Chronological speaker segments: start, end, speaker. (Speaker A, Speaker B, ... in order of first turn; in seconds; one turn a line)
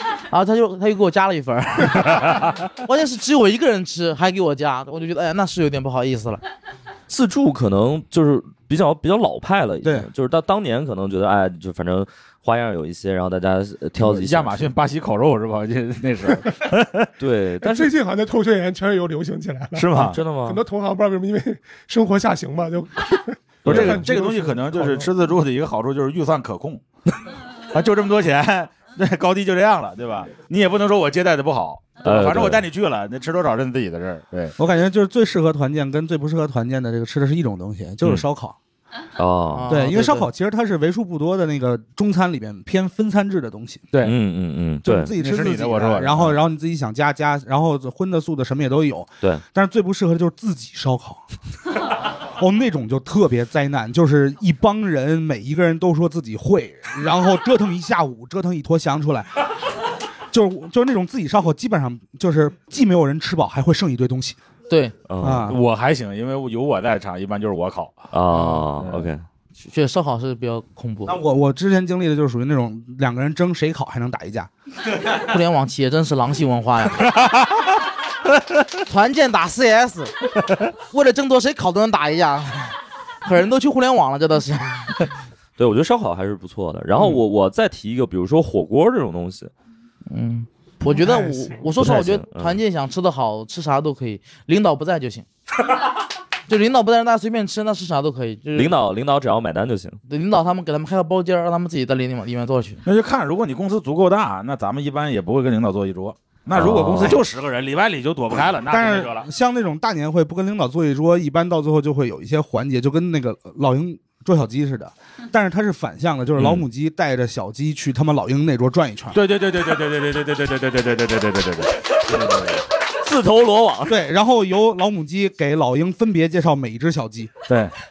Speaker A: 0.3-6.4
Speaker B: 7.1-14.7
Speaker C: 9.8-10.1
Speaker D: 14.0-17.1
Speaker B: 17.2-17.9
Speaker E: 17.6-25.1
Speaker D: 19.8-20.2
Speaker B: 20.0-20.6
Speaker B: 23.6-24.1
Speaker D: 23.7-26.8
Speaker D: 27.7-34.5
Speaker B: 32.0-32.6
Speaker C: 34.6-38.6
Speaker B: 39.2-39.9
Speaker A: 39.5-40.3
Speaker C: 39.7-43.9
Speaker B: 44.0-45.1
Speaker C: 44.8-51.2
Speaker D: 45.2-46.4
Speaker C: 52.4-59.5
Speaker C: 60.3-64.4
Speaker A: 64.7-65.0
Speaker B: 65.1-65.5
Speaker C: 65.2-65.6
Speaker D: 65.5-68.1
Speaker B: 68.1-69.2
Speaker A: 68.3-68.7
Speaker D: 68.8-69.1
Speaker A: 69.6-71.2
Speaker C: 71.1-74.5
Speaker A: 75.1-77.1
Speaker A: 78.9-80.2
Speaker A: 80.9-85.0
Speaker B: 85.6-89.5
Speaker A: 90.1-95.3
Speaker E: 90.9-91.6
Speaker B: 91.8-92.6
Speaker A: 96.5-98.7
Speaker B: 98.5-100.0
Speaker A: 100.1-102.8
Speaker D: 102.9-109.3
Speaker B: 106.5-107.2
Speaker C: 108.7-119.2
Speaker D: 119.1-122.6
Speaker B: 123.0-124.0
Speaker C: 123.9-127.4
Speaker D: 127.5-127.7